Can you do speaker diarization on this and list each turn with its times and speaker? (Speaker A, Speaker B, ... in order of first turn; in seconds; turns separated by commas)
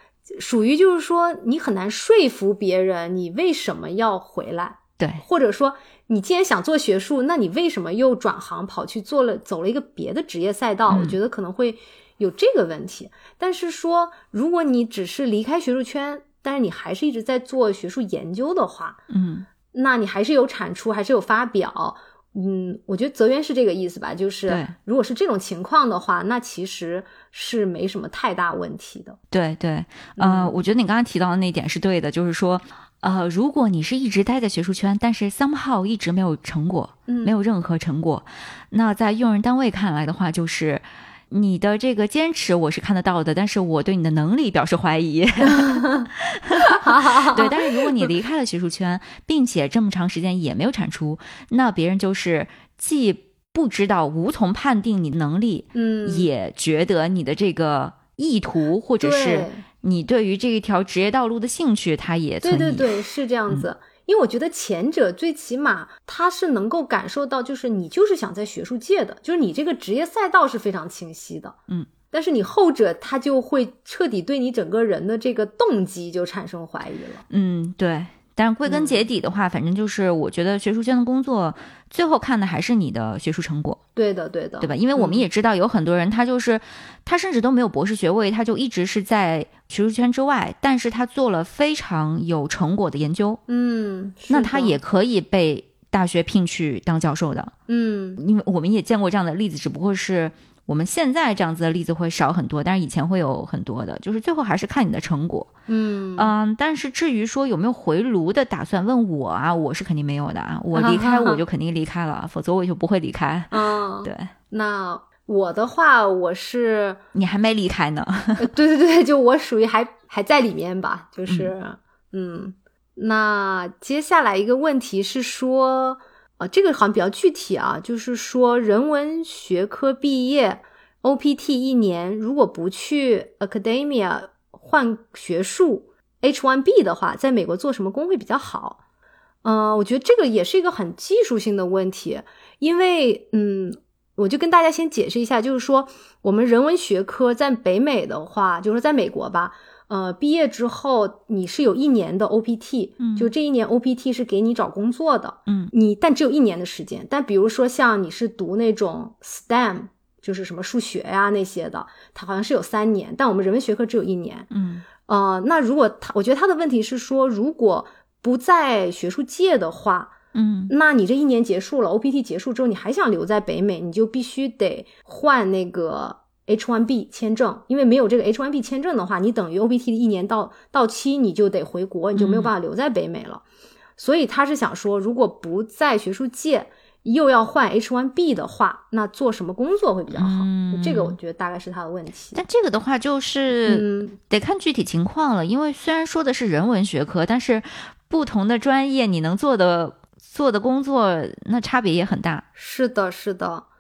Speaker A: 0.3-19.0, Speaker B: 5.0-5.2, Speaker B: 10.9-11.2, Speaker B: 19.1-19.5, Speaker A: 19.7-29.2, Speaker B: 24.5-24.7, Speaker B: 29.3-62.9, Speaker A: 30.2-30.6, Speaker A: 37.1-37.3, Speaker A: 45.4-46.1, Speaker A: 46.6-48.0, Speaker A: 55.7-56.3, Speaker A: 59.0-59.6, Speaker A: 62.4-71.6, Speaker A: 72.1-77.2, Speaker B: 77.3-83.8, Speaker A: 78.7-79.0, Speaker A: 84.0-85.2, Speaker B: 84.6-93.4, Speaker A: 93.5-94.8, Speaker B: 94.3-97.5, Speaker A: 97.7-98.2, Speaker B: 98.2-105.5, Speaker A: 105.7-106.3, Speaker B: 106.2-114.3, Speaker A: 110.7-111.4, Speaker A: 113.5-117.0, Speaker B: 117.1-118.5, Speaker A: 118.4-138.8, Speaker A: 139.4-164.5, Speaker B: 153.0-153.3, Speaker B: 155.5-155.7, Speaker B: 164.5-164.8, Speaker A: 165.0-170.1, Speaker B: 170.3-170.7, Speaker A: 170.7-183.4, Speaker B: 182.2-182.5, Speaker A: 184.0-192.4, Speaker B: 190.1-191.2, Speaker B: 192.3-202.4, Speaker A: 193.6-194.2, Speaker A: 202.6-203.7